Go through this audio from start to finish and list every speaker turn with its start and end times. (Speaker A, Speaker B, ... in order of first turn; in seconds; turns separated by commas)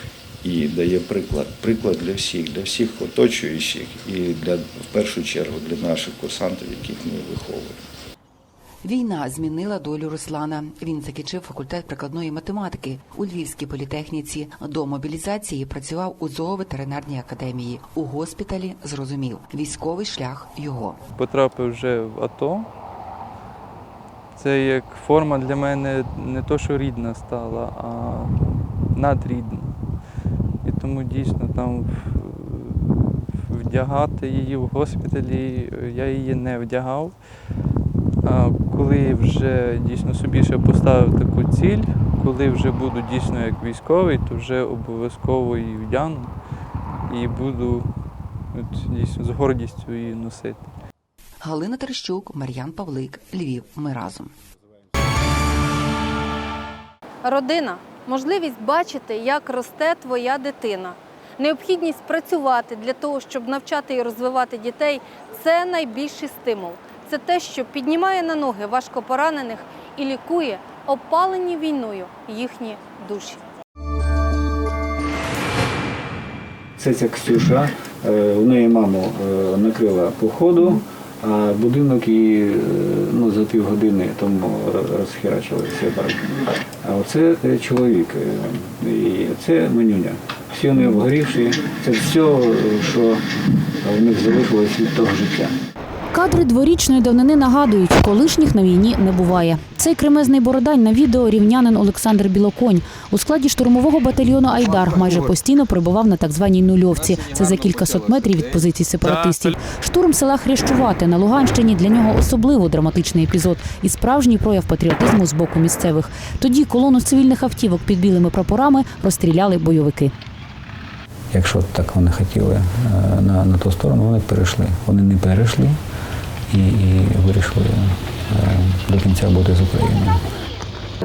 Speaker A: 0.4-7.8, Speaker B: 8.8-21.0, Speaker C: 21.1-22.7, Speaker C: 24.4-28.3, Speaker C: 28.9-29.8, Speaker C: 30.6-37.1, Speaker C: 38.2-46.3, Speaker C: 47.1-47.9, Speaker C: 48.5-50.7, Speaker B: 51.4-54.3, Speaker D: 57.2-73.4, Speaker E: 76.8-93.2, Speaker E: 93.8-95.5, Speaker F: 96.1-120.1, Speaker C: 107.4-108.5, Speaker C: 109.1-109.7, Speaker E: 121.3-125.8, Speaker E: 126.5-130.2